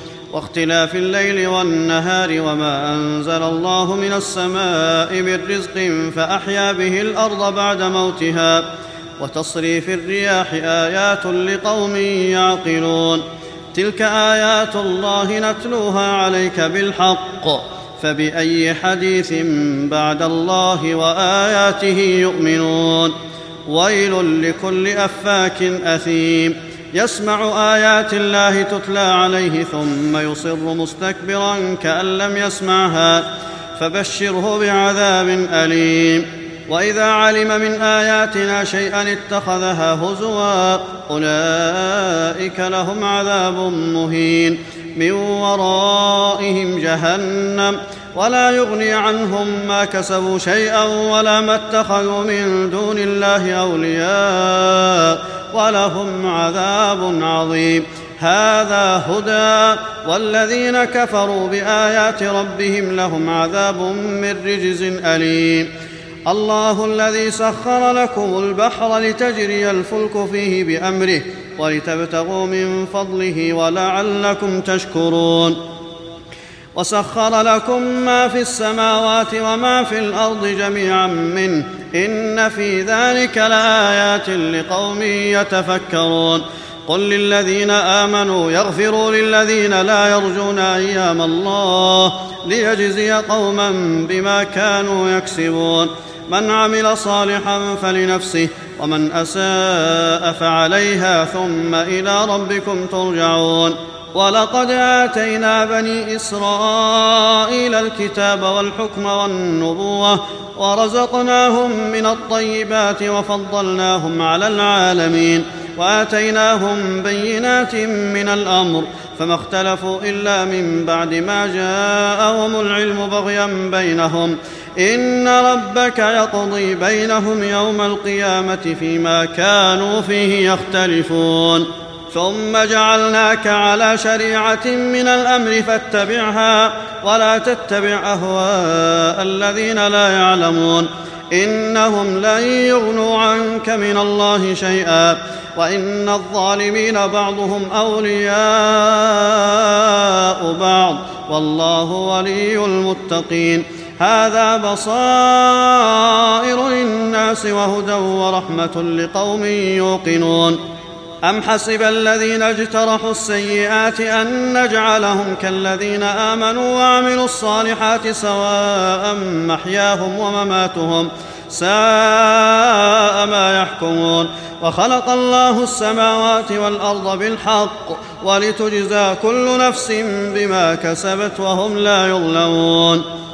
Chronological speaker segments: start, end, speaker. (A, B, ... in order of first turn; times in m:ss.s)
0:00.3-0:08.6 A
0:09.2-0:23.1 A
0:23.7-1:05.7 A
1:06.3-1:15.6 A
1:16.8-2:40.6 A
2:41.2-3:03.0 A